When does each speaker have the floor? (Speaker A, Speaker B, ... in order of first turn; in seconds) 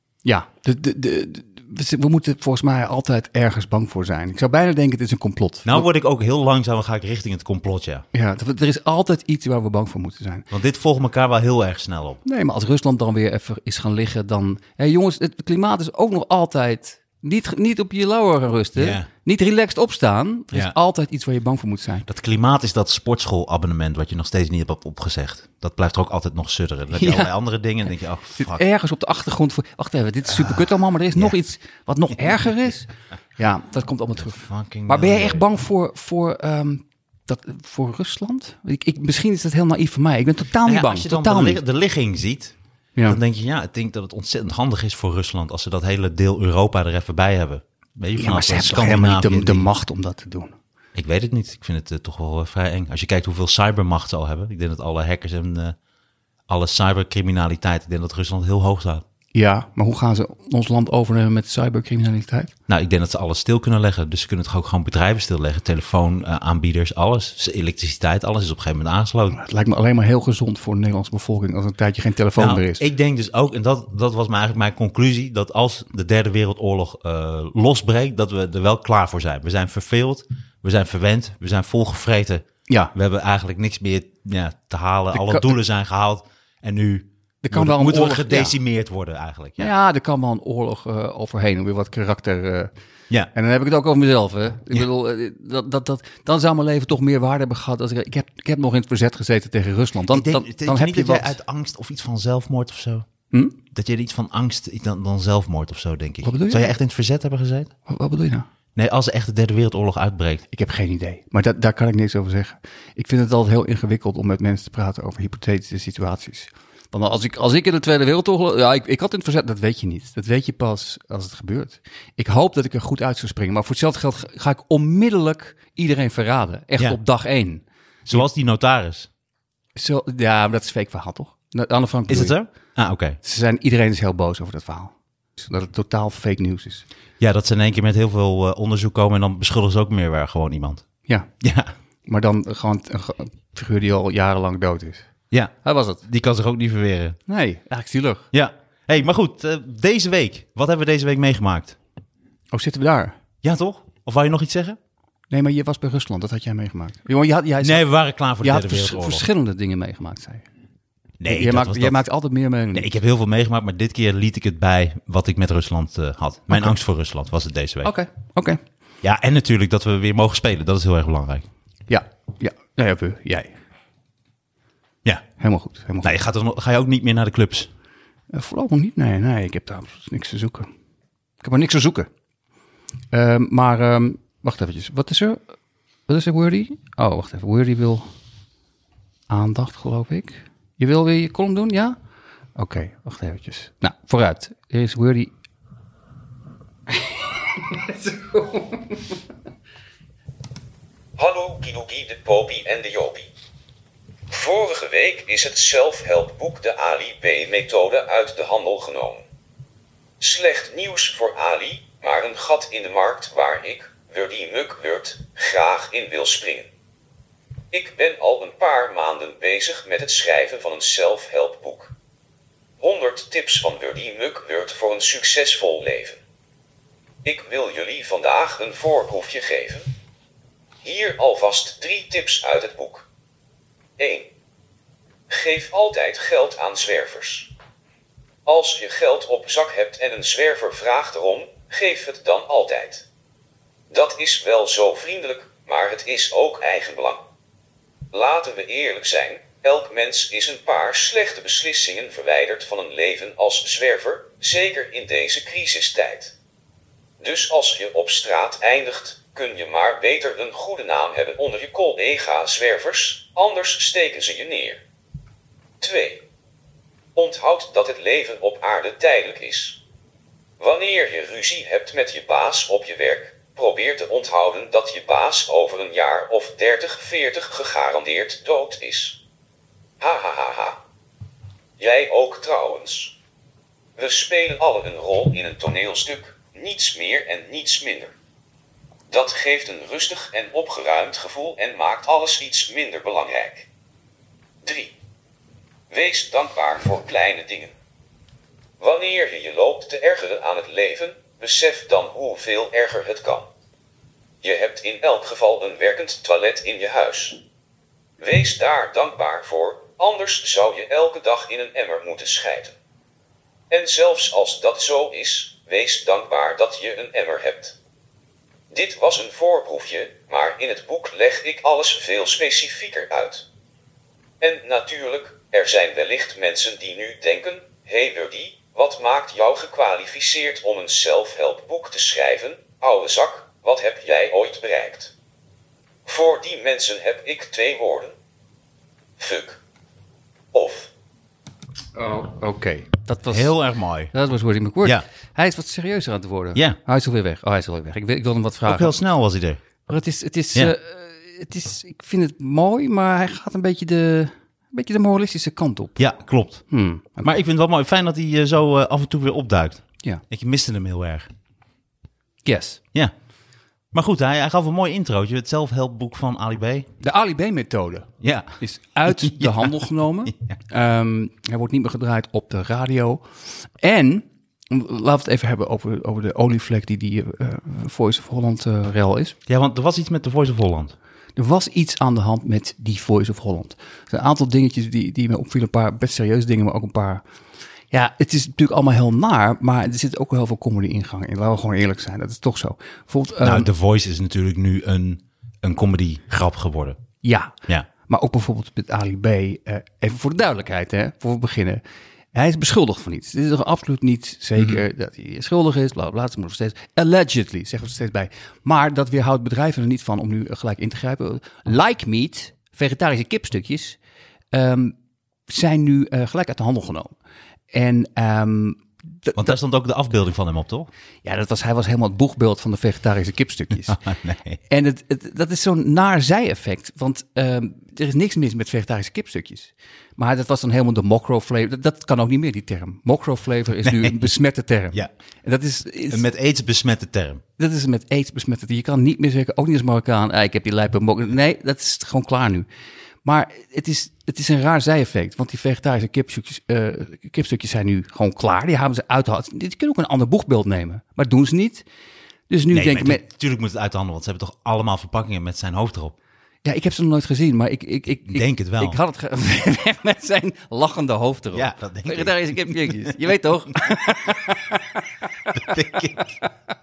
Speaker A: 0.2-5.8, 8.1-10.5, 12.2-22.1, 26.9-27.3, 28.4-41.6, 48.2-50.5, 59.3-62.5, 69.3-72.8, 85.1-85.5, 87.4-88.6, 89.6-92.7, 93.3-101.3, 106.2-106.7, 107.9-108.5, 110.5-128.2, 129.8-132.4, 133.2-136.8, 142.1-145.1, 145.6-146.0, 147.3-148.3, 152.5-153.1, 155.3-157.8, 158.4-160.4, 161.3-162.9, 167.8-168.6, 171.9-173.6, 175.4-176.1, 178.3-180.7, 181.4-182.1, 183.1-185.4, 186.1-188.1, 189.3-192.0, 192.6-195.3, 197.6-199.0, 341.9-343.6, 344.1-348.9, 349.9-356.0, 356.7-357.4, 362.4-362.8, 367.0-373.2, 373.8-379.3, 381.4-387.2, 387.9-393.7, 397.2-401.8, 402.3-414.0, 414.5-414.9, 415.5-417.1, 417.7-419.5, 421.2-424.0, 424.7-436.2, 437.6-442.7, 443.2-451.8, 452.5-453.2, 456.6-466.5
Speaker B: 5.6-8.0, 10.5-12.2, 18.8-19.1, 22.1-28.6, 34.2-35.4, 40.6-49.7, 50.9-55.8, 56.5-59.0, 62.7-69.4, 72.4-89.7, 100.1-103.0, 103.7-107.7, 108.7-110.4, 128.1-129.1, 132.1-133.2, 137.2-140.8, 141.4-141.7, 145.3-147.2, 148.3-151.8, 153.4-154.8, 157.6-159.2, 161.2-162.0, 162.7-167.9, 169.0-171.5, 176.0-177.7, 343.3-344.1, 348.7-349.6, 356.0-356.6, 357.2-361.3, 363.9-366.9, 368.2-369.7, 370.3-370.5, 379.5-380.9, 393.4-397.0, 404.6-404.8, 419.3-420.9, 423.9-424.6, 433.8-434.3, 436.1-437.4, 452.7-456.1, 458.3-459.0, 461.5-463.2, 465.5-466.3
Speaker C: 201.2-203.3, 204.3-209.2, 210.2-216.7, 217.7-221.9, 222.8-226.2, 227.2-229.9, 230.8-233.1, 234.0-234.3, 235.3-237.5, 238.4-243.0, 243.9-247.2, 248.1-256.3, 257.2-264.8, 265.8-266.2, 267.1-269.8, 270.6-279.2, 280.0-280.8, 281.8-283.1, 284.0-288.1, 289.1-293.7, 294.6-294.9, 295.9-297.7, 298.8-303.4, 304.4-307.4, 308.2-312.7, 313.7-317.7, 318.7-323.4, 324.4-335.1, 336.1-338.1, 339.2-339.6, 340.5-340.9